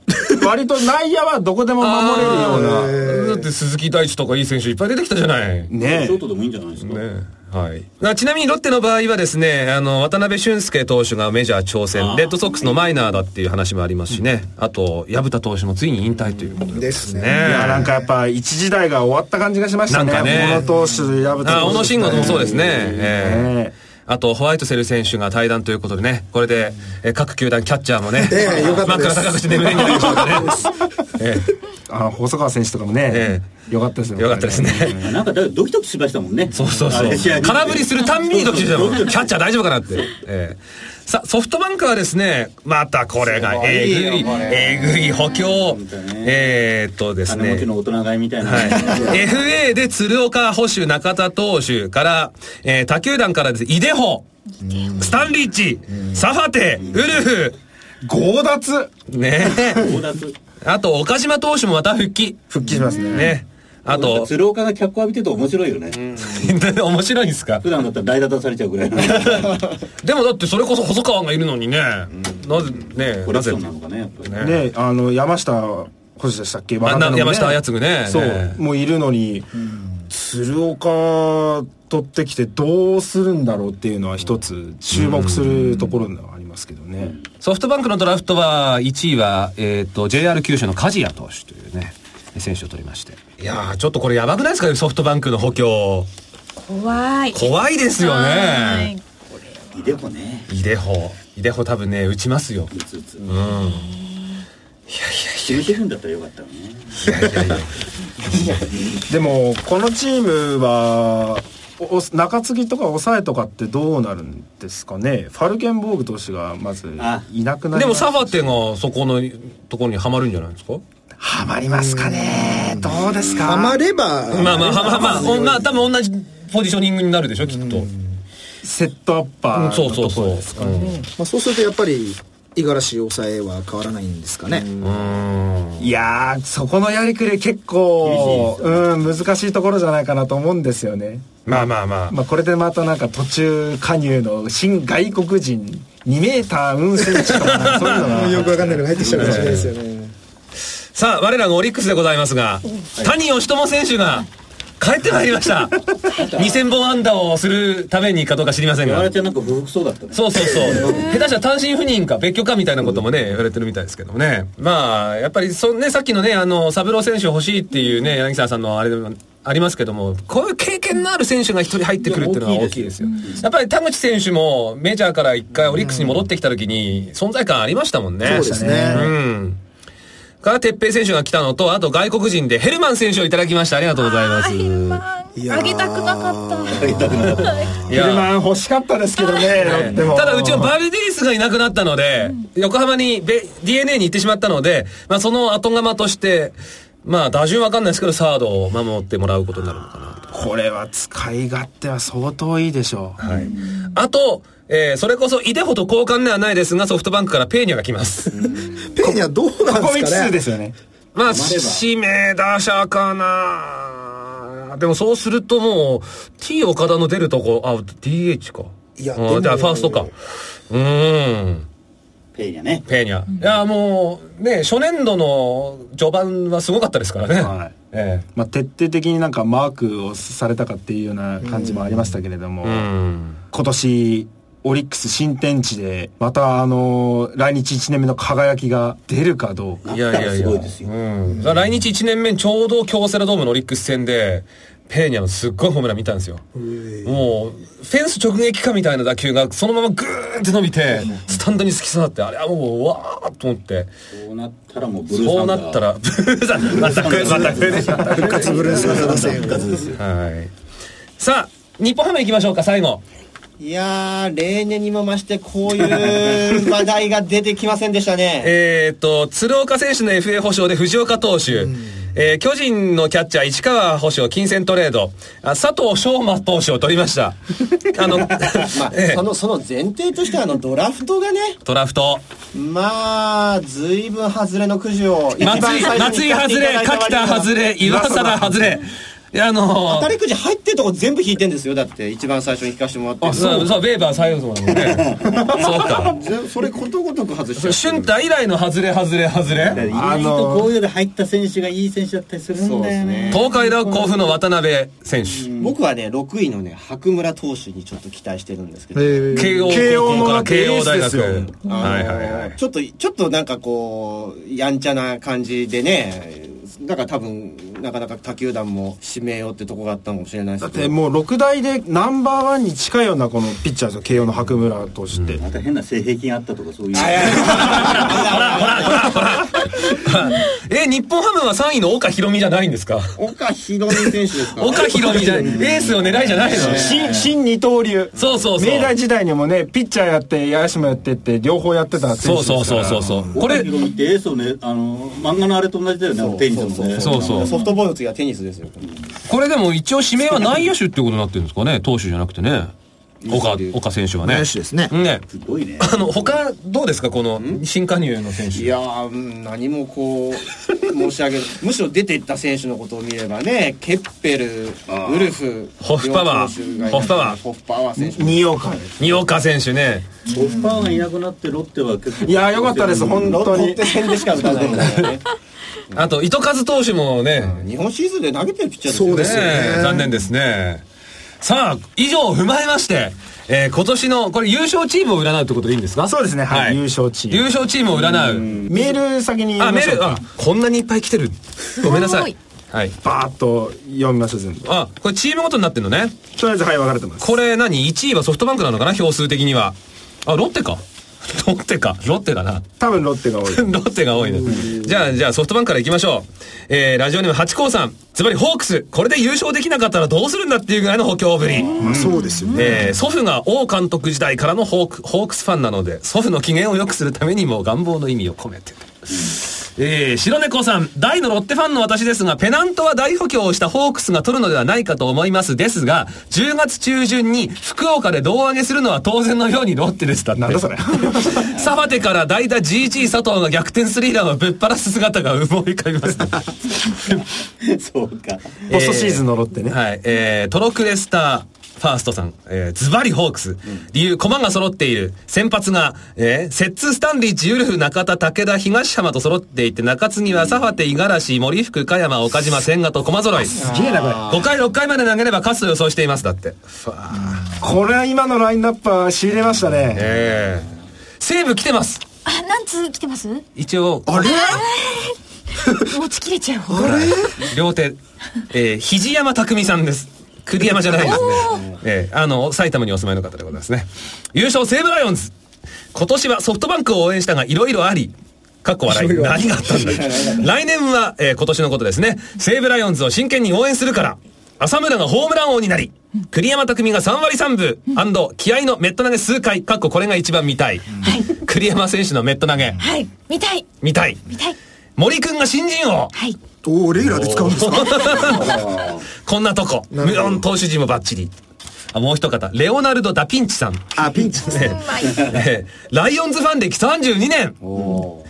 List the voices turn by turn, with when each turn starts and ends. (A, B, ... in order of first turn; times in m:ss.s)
0:00.2-0:03.0 A
0:01.8-0:05.7 B
0:02.2-0:03.5 C
0:05.7-0:06.2 A
0:05.8-0:07.0 D
0:06.8-0:17.9 B
0:11.9-0:12.4 D
0:16.6-0:18.0 C
0:17.4-0:23.7 A
0:19.9-0:20.7 B
0:20.4-0:22.4 C
0:21.4-0:23.5 B
0:24.1-0:31.5 B
0:28.2-0:30.7 C
0:31.9-0:35.2 A
0:33.1-0:33.5 B
0:34.2-0:35.0 B
0:35.0-0:39.3 D
0:36.5-0:47.7 B
0:43.2-0:45.0 E
0:45.5-0:46.6 D
0:47.2-0:49.3 D
0:48.4-0:54.3 B
0:48.8-0:49.2 C
0:54.6-0:55.1 C
0:54.9-0:57.6 B
0:56.8-0:57.2 D
0:58.0-0:58.9 A
0:59.1-0:59.9 B
0:59.6-1:00.3 D
1:00.6-1:04.3 B
1:02.5-1:03.4 A
1:03.9-1:06.2 D
1:06.0-1:07.6 B
1:07.6-1:09.6 D
1:09.0-1:13.7 B
1:13.2-1:14.4 D
1:14.2-1:14.6 B
1:14.4-1:19.5 A
1:16.8-1:18.6 B
1:20.1-1:27.1 A
1:24.9-1:25.8 B
1:27.4-1:36.1 B
1:36.6-1:39.0 F
1:37.3-1:38.9 B
1:39.7-1:40.5 D
1:40.5-1:42.7 B
1:42.7-1:43.3 D
1:43.2-1:43.9 B
1:43.6-1:44.2 F
1:44.9-1:45.8 B
1:45.4-1:47.5 D
1:47.0-1:47.7 B
1:49.0-1:58.6 A
1:57.0-1:57.2 D
1:57.7-2:00.8 B
2:01.2-2:03.8 A
2:01.6-2:05.6 C
2:04.3-2:07.9 B
2:04.4-2:05.4 A
2:07.5-2:08.0 C
2:08.6-2:10.9 A
2:09.5-2:11.0 B
2:10.7-2:14.7 C
2:14.8-2:15.9 B
2:15.8-2:29.6 A
2:18.0-2:18.9 D
2:21.4-2:22.2 B
2:27.2-2:28.1 B
2:27.8-2:30.1 C
2:28.9-2:29.6 D
2:29.2-2:29.6 B
2:30.9-2:34.3 B
2:34.8-2:39.1 B
2:36.1-2:36.6 D
2:38.8-2:41.2 D
2:40.1-2:59.6 B
2:52.0-2:53.4 D
2:58.2-2:59.1 A
2:58.2-2:59.1 C
3:00.4-3:05.0 B
3:04.0-3:07.8 F
3:05.3-3:07.3 C
3:06.8-3:07.7 D
3:07.2-3:08.3 B
3:07.9-3:10.7 A
3:09.2-3:09.6 F
3:09.6-3:20.2 B
3:20.3-3:23.2 A
3:23.2-3:28.4 B
3:23.2-3:23.6 D
3:28.3-3:28.9 D
3:28.8-3:30.4 C
3:29.0-3:30.7 A
3:31.1-3:40.1 B
3:31.2-3:31.8 D
3:39.0-3:40.1 C
3:40.7-3:41.6 B
3:42.3-3:42.8 D
3:42.9-3:48.2 B
3:47.4-3:47.7 D
3:48.3-3:52.9 A
3:51.4-3:51.8 C
3:52.6-3:53.4 B
3:53.5-3:59.8 A
3:59.8-4:00.9 D
3:59.9-4:06.4 B
4:07.0-4:13.9 B
4:14.1-4:15.8 D
4:15.1-4:19.0 B
4:16.6-4:20.0 D
4:17.6-4:19.8 C
4:19.9-4:20.5 B
4:21.2-4:23.0 B
4:23.6-4:28.5 E
4:28.4-4:39.2 B
4:38.5-4:41.6 E
4:41.6-4:42.2 B
4:42.5-4:47.5 E
4:45.4-4:50.1 B
4:45.4-4:45.8 A
4:47.8-4:48.8 A
4:49.9-4:53.7 E
4:53.2-4:53.7 A
4:53.3-4:56.2 B
4:54.8-4:55.5 D
4:55.3-4:58.1 E
4:57.6-4:59.8 B
4:59.7-5:04.3 D
4:59.8-5:00.7 A
5:02.5-5:03.4 E
5:03.3-5:05.5 B
5:05.3-5:05.8 D
5:05.6-5:09.7 E
5:08.9-5:10.0 C
5:09.3-5:12.6 B
5:09.6-5:11.5 A
5:11.6-5:20.9 E
5:20.6-5:25.4 A
5:25.4-5:28.6 D
5:26.9-5:29.5 E
5:27.0-5:33.2 B
5:33.2-5:37.3 E
5:33.9-5:37.0 B
5:35.2-5:36.4 D
5:36.5-5:43.3 A
5:38.2-5:38.9 B
5:42.2-5:43.7 B
5:43.3-5:47.5 D
5:46.1-5:49.0 E
5:47.0-5:47.5 B
5:49.2-5:52.7 B
5:53.2-5:53.8 E
5:53.3-5:55.2 B
5:54.2-5:54.9 C
5:55.3-5:56.4 D
5:55.8-5:58.7 B
5:58.5-6:08.7 E
6:04.9-6:05.4 D
6:05.8-6:07.4 B
6:08.0-6:09.0 A
6:09.0-6:10.1 B
6:10.3-6:13.5 D
6:12.2-6:15.1 A
6:13.1-6:15.2 E
6:14.3-6:15.1 D
6:15.9-6:17.6 B
6:17.4-6:19.8 E
6:18.9-6:20.1 C
6:19.0-6:20.8 B
6:21.4-6:28.5 B
6:26.0-6:27.5 A
6:28.0-6:28.9 D
6:28.5-6:30.2 A
6:29.6-6:33.0 B
6:31.8-6:32.4 F
6:33.0-6:34.7 A
6:34.6-6:36.2 B
6:36.3-6:37.3 A
6:37.2-6:42.6 B
6:42.8-6:43.7 A
6:43.5-6:51.8 B
6:44.4-6:44.8 A
6:51.6-6:52.8 F
6:51.7-6:52.9 C
6:51.8-6:52.2 A
6:52.5-7:17.2 B
7:10.3-7:11.6 A
7:17.6-7:18.7 D
7:18.7-7:19.8 A
7:18.7-7:33.6 B
7:33.6-7:34.5 E
7:33.6-7:34.3 A
7:34.3-7:37.5 B
7:37.6-7:40.2 A
7:39.9-7:42.0 B
7:42.2-7:43.4 F
7:43.6-7:44.5 B
7:44.1-7:44.6 C
7:44.1-7:45.2 F
7:45.7-7:47.1 F
7:46.7-7:47.3 C
7:46.8-7:48.0 B
7:48.5-7:55.3 B
7:50.9-7:51.7 F
7:55.9-8:12.8 B
7:58.9-8:00.4 C
8:11.0-8:11.3 F
8:12.8-8:13.7 F
8:13.8-8:14.2 B
8:14.3-8:14.6 F
8:15.0-8:16.1 B
8:16.1-8:16.4 F
8:16.6-8:18.6 C
8:17.0-8:21.3 B
8:17.9-8:18.3 F
8:19.9-8:20.4 C
8:21.9-8:27.6 B
8:24.0-8:24.9 C
8:24.5-8:25.2 F
8:27.6-8:28.0 E
8:27.8-8:28.0 D